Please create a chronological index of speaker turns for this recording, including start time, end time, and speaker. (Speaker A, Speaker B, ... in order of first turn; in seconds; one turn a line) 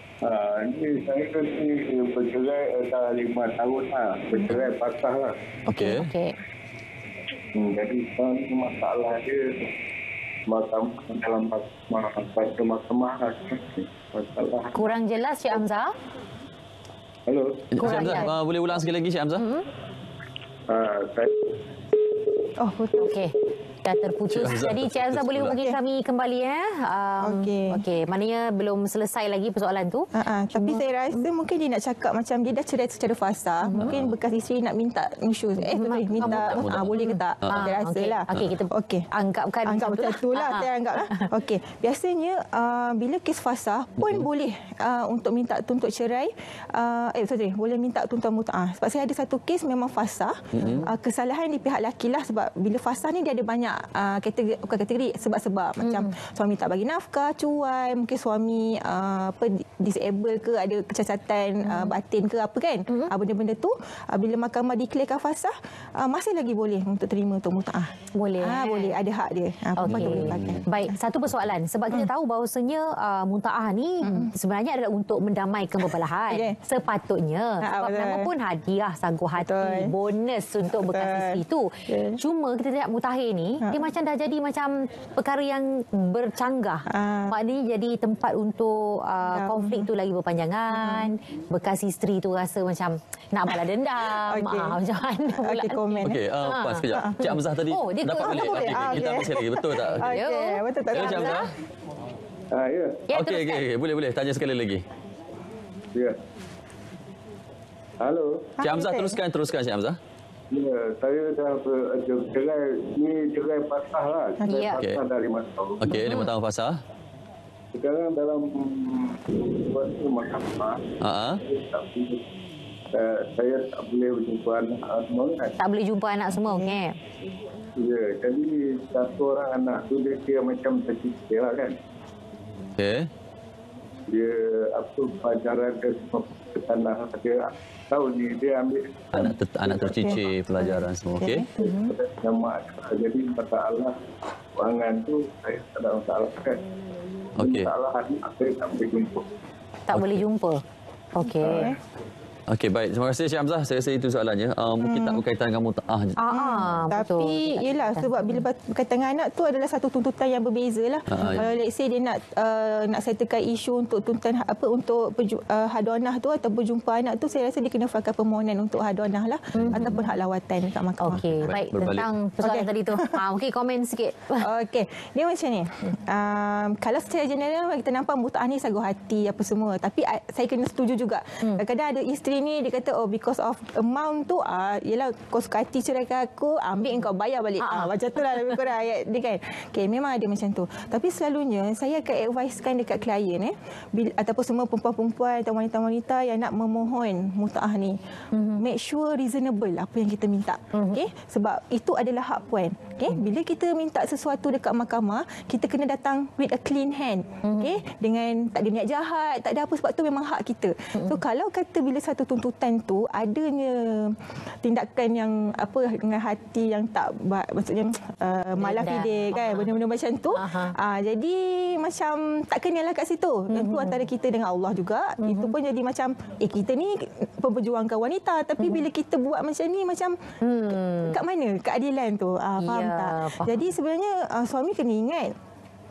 Speaker A: 0.2-5.3
Speaker B: 5.7-6.3
Speaker C: 5.7-6.1
Speaker A: 7.5-9.6
Speaker A: 10.5-15.0
Speaker B: 14.7-15.9
Speaker A: 17.3-18.0
Speaker C: 17.7-19.4
Speaker B: 17.8-18.3
Speaker B: 19.4-19.7
Speaker A: 20.7-21.5
Speaker D: 22.6-23.1
Speaker B: 23.0-31.2
Speaker C: 24.3-25.6
Speaker D: 27.2-27.8
Speaker D: 30.1-39.0
Speaker B: 33.6-33.9
Speaker C: 33.8-34.1
Speaker B: 35.6-41.3
Speaker C: 36.2-37.7
Speaker D: 39.6-71.0
Speaker C: 44.0-44.2
Speaker C: 50.5-50.9
Speaker B: 55.9-56.1
Speaker B: 61.6-61.9
Speaker B: 68.1-69.0
Speaker B: 69.8-99.2
Speaker C: 69.8-70.6
Speaker D: 74.0-74.3
Speaker D: 76.3-76.6
Speaker D: 77.6-78.3
Speaker D: 79.4-79.9
Speaker D: 80.8-82.2
Speaker D: 86.9-87.3
Speaker D: 89.3-89.9
Speaker D: 90.8-91.1
Speaker D: 94.2-94.8
Speaker D: 95.4-96.2
Speaker C: 96.0-100.1
Speaker D: 96.9-97.3
Speaker D: 98.2-101.4
Speaker B: 100.0-101.5
Speaker C: 100.9-101.5
Speaker A: 102.5-103.0
Speaker B: 103.1-103.6
Speaker C: 103.1-104.8
Speaker A: 108.0-108.5
Speaker D: 108.6-109.2
Speaker C: 108.6-110.0
Speaker A: 110.5-116.0
Speaker B: 114.5-114.8
Speaker C: 114.7-115.0
Speaker C: 115.8-116.8
Speaker B: 115.9-116.3
Speaker A: 117.7-120.8
Speaker C: 121.0-121.4
Speaker A: 121.4-122.2
Speaker A: 122.9-125.5
Speaker B: 125.6-127.0
Speaker D: 126.3-126.8
Speaker A: 127.8-131.8
Speaker C: 132.8-133.1
Speaker A: 134.1-139.9
Speaker C: 139.1-141.5
Speaker D: 139.8-140.2
Speaker D: 141.2-141.4
Speaker B: 141.6-141.9
Speaker A: 141.6-143.9
Speaker A: 144.6-146.6
Speaker C: 147.4-147.7
Speaker A: 147.4-149.2
Speaker B: 149.9-150.6
Speaker C: 149.9-150.2
Speaker B: 151.1-151.7
Speaker D: 151.3-151.8
Speaker C: 152.5-156.2
Speaker D: 154.8-155.2
Speaker B: 156.2-158.4
Speaker D: 156.3-171.2
Speaker C: 161.1-161.4
Speaker C: 169.5-169.9
Speaker B: 169.6-170.1
Speaker B: 171.0-174.5
Speaker C: 171.4-172.1
Speaker D: 172.4-173.2
Speaker D: 174.4-198.0
Speaker B: 187.6-187.9
Speaker B: 198.3-198.6
Speaker D: 198.6-230.2
Speaker B: 200.7-201.0
Speaker B: 207.4-207.8
Speaker B: 218.6-219.7
Speaker B: 220.3-220.7
Speaker B: 223.5-224.0
Speaker B: 225.2-225.5
Speaker B: 230.4-231.2
Speaker D: 231.0-235.3
Speaker B: 232.6-233.6